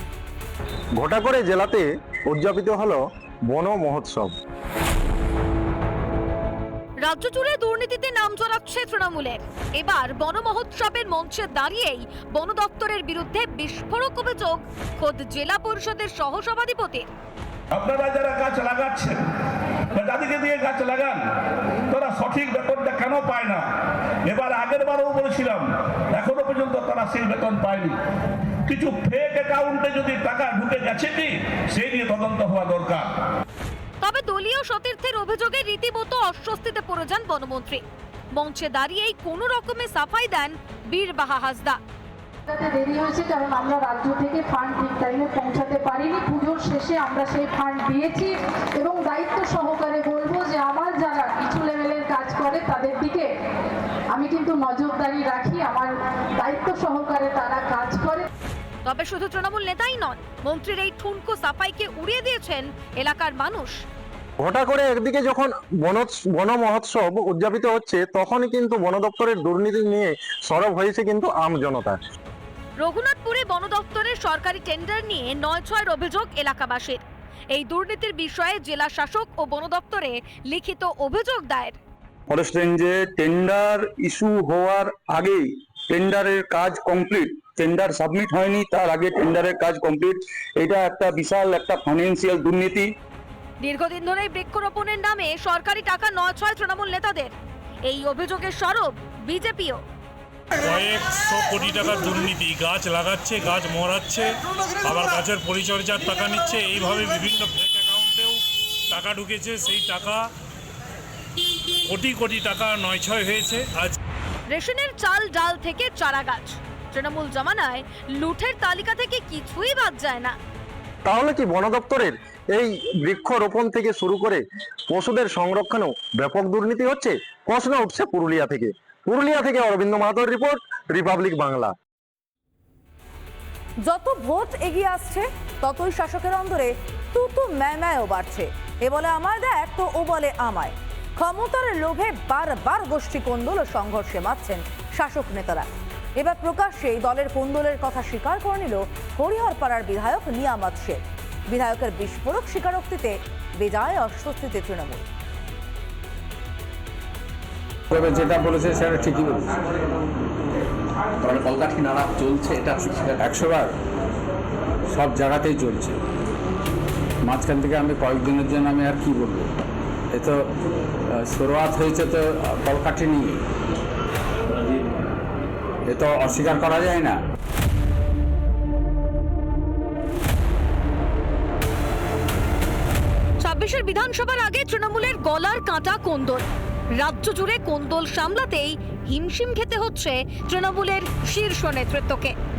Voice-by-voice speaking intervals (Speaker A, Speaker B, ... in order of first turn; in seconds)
Speaker A: 1.0-4.3, 64.4-72.0, 121.1-131.7
Speaker B: 7.1-17.1, 34.0-37.8, 38.4-41.8, 58.9-63.8, 72.8-77.0, 77.5-81.8, 93.6-97.3, 97.9-99.8, 114.5-120.4, 183.4-186.5, 187.0-192.3
Speaker C: 17.7-19.2, 19.9-21.2, 21.9-23.6, 24.3-28.0, 28.7-33.1
Speaker D: 42.5-53.3, 54.1-58.3
Speaker E: 82.3-92.9
Speaker F: 100.6-104.3, 104.9-108.4, 108.9-110.2, 111.9-113.9
Speaker G: 133.8-155.1
Speaker H: 157.9-159.6, 163.2-163.7, 164.9-166.0, 167.3-169.5, 171.2-173.4, 175.9-177.2
Speaker I: 161.2-163.2